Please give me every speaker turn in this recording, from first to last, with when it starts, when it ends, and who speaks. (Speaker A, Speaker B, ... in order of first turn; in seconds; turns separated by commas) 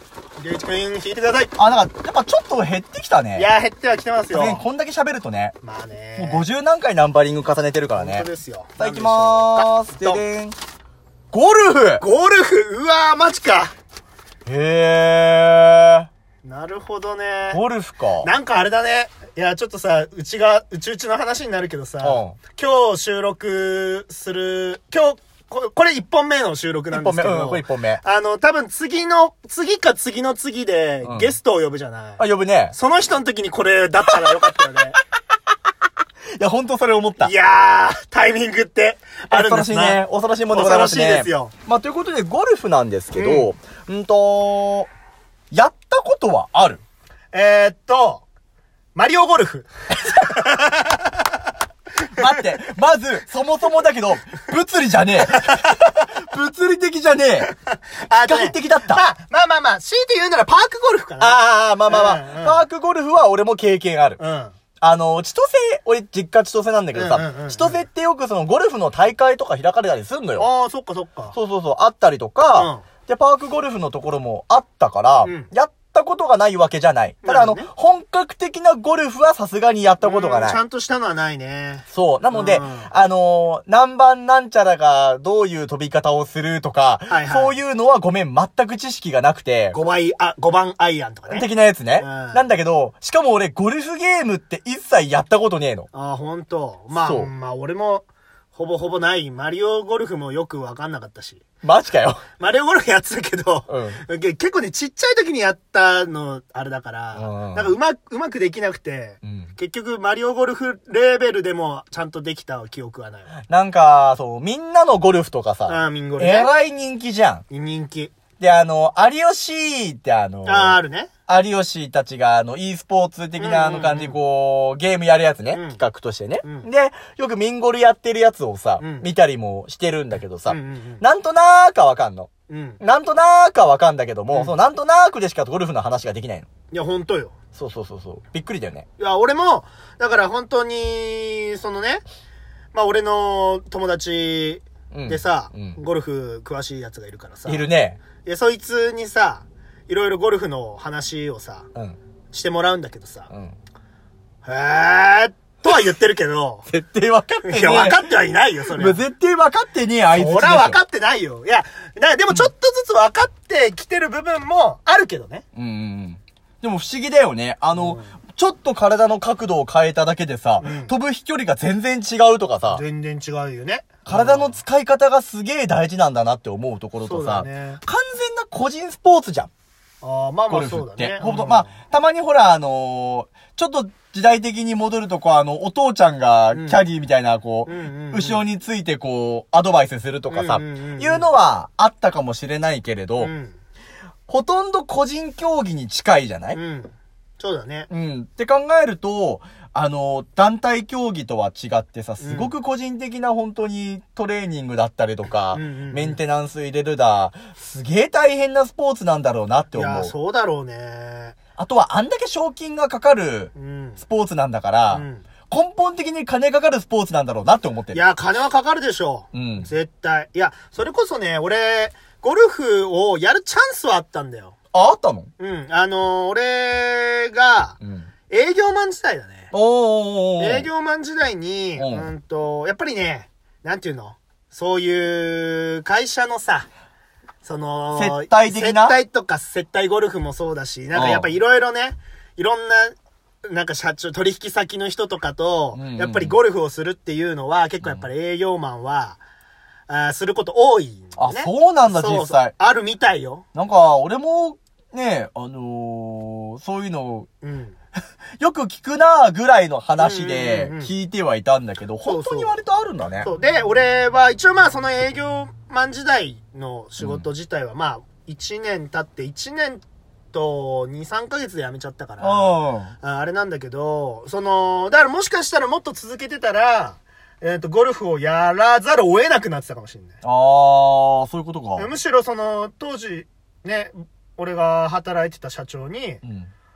Speaker A: 0.4-1.5, Speaker B: 1.6-3.5, Speaker A: 3.4-4.6, Speaker B: 4.3-5.5, Speaker A: 5.6-6.4, Speaker B: 6.2-8.3, Speaker A: 8.0-10.2, Speaker B: 8.8-10.6, Speaker B: 11.3-12.0, Speaker A: 12.0-13.7, Speaker B: 14.5-16.1, Speaker A: 16.4-17.6, Speaker B: 17.5-18.3, Speaker A: 18.2-35.0, Speaker B: 22.0-22.4, Speaker B: 26.9-28.0, Speaker B: 31.0-31.3, Speaker B: 32.2-32.8, Speaker B: 36.4-37.3, Speaker A: 37.2-41.5, Speaker B: 39.3-44.9, Speaker A: 43.1-43.5, Speaker B: 45.5-46.8, Speaker A: 47.3-48.2, Speaker A: 49.0-51.3, Speaker B: 52.1-57.5, Speaker A: 55.3-55.8, Speaker A: 57.4-62.6, Speaker B: 58.2-59.0, Speaker B: 61.2-64.2, Speaker A: 64.2-64.5, Speaker B: 64.8-70.5, Speaker A: 66.9-67.8, Speaker A: 70.4-71.4, Speaker B: 71.3-80.6, Speaker A: 72.6-72.8, Speaker A: 75.2-75.5, Speaker A: 77.2-77.7, Speaker A: 80.0-82.9, Speaker B: 81.9-89.8, Speaker A: 87.1-87.6, Speaker A: 89.7-91.5, Speaker B: 91.3-95.9, Speaker A: 92.0-92.4, Speaker A: 95.9-101.5, Speaker B: 96.9-97.3, Speaker B: 101.6-102.2, Speaker A: 102.4-113.3, Speaker B: 103.7-104.0, Speaker B: 107.2-107.7, Speaker B: 109.2-109.5, Speaker B: 113.5-117.4, Speaker A: 115.7-116.5, Speaker A: 117.5-118.2, Speaker B: 118.4-132.3, Speaker A: 120.5-121.1, Speaker A: 123.4-124.2, Speaker A: 125.5-125.8, Speaker A: 126.4-126.7, Speaker A: 128.8-129.1, Speaker A: 130.5-131.0, Speaker A: 132.5-132.8, Speaker B: 132.8-136.5, Speaker A: 136.7-137.3, Speaker B: 137.6-138.9, Speaker A: 139.0-142.0, Speaker A: 142.7-147.7, Speaker B: 144.9-145.8, Speaker B: 147.5-148.0, Speaker A: 148.2-151.7, Speaker A: 152.3-153.3, Speaker A: 154.4-156.7, Speaker B: 156.7-158.1, Speaker A: 157.4-159.0, Speaker B: 158.7-160.8, Speaker A: 160.1-165.4, Speaker B: 165.6-172.8, Speaker A: 167.8-168.1, Speaker A: 170.6-170.9, Speaker A: 172.7-174.6, Speaker B: 174.1-179.5, Speaker A: 177.0-177.8, Speaker A: 180.0-181.7, Speaker B: 180.5-193.3, Speaker A: 186.5-186.8, Speaker A: 187.7-188.4, Speaker A: 190.3-191.3, Speaker A: 193.2-193.6, Speaker B: 194.3-196.6, Speaker A: 196.5-197.9, Speaker B: 197.9-210.1, Speaker A: 202.2-202.5, Speaker A: 205.5-206.2, Speaker A: 209.7-211.4, Speaker B: 211.6-218.0, Speaker A: 213.6-214.0, Speaker A: 214.9-215.2, Speaker A: 217.9-224.6, Speaker B: 219.3-219.7, Speaker B: 224.7-225.3, Speaker A: 225.4-227.8, Speaker B: 227.8-228.1, Speaker A: 228.3-229.5, Speaker B: 229.5-230.7, Speaker A: 230.4-236.7, Speaker B: 231.8-232.1, Speaker A: 237.4-249.2, Speaker B: 237.9-239.0, Speaker B: 240.9-241.3, Speaker B: 245.7-246.4, Speaker A: 249.9-253.4, Speaker B: 251.2-252.5, Speaker B: 253.5-257.3, Speaker A: 257.4-257.8, Speaker B: 258.4-263.3, Speaker A: 260.0-260.9, Speaker A: 262.0-262.6, Speaker A: 263.2-269.8, Speaker B: 267.0-267.3, Speaker A: 270.3-280.2, Speaker B: 272.2-272.9, Speaker B: 280.2-281.9, Speaker A: 281.8-286.2, Speaker B: 286.2-286.5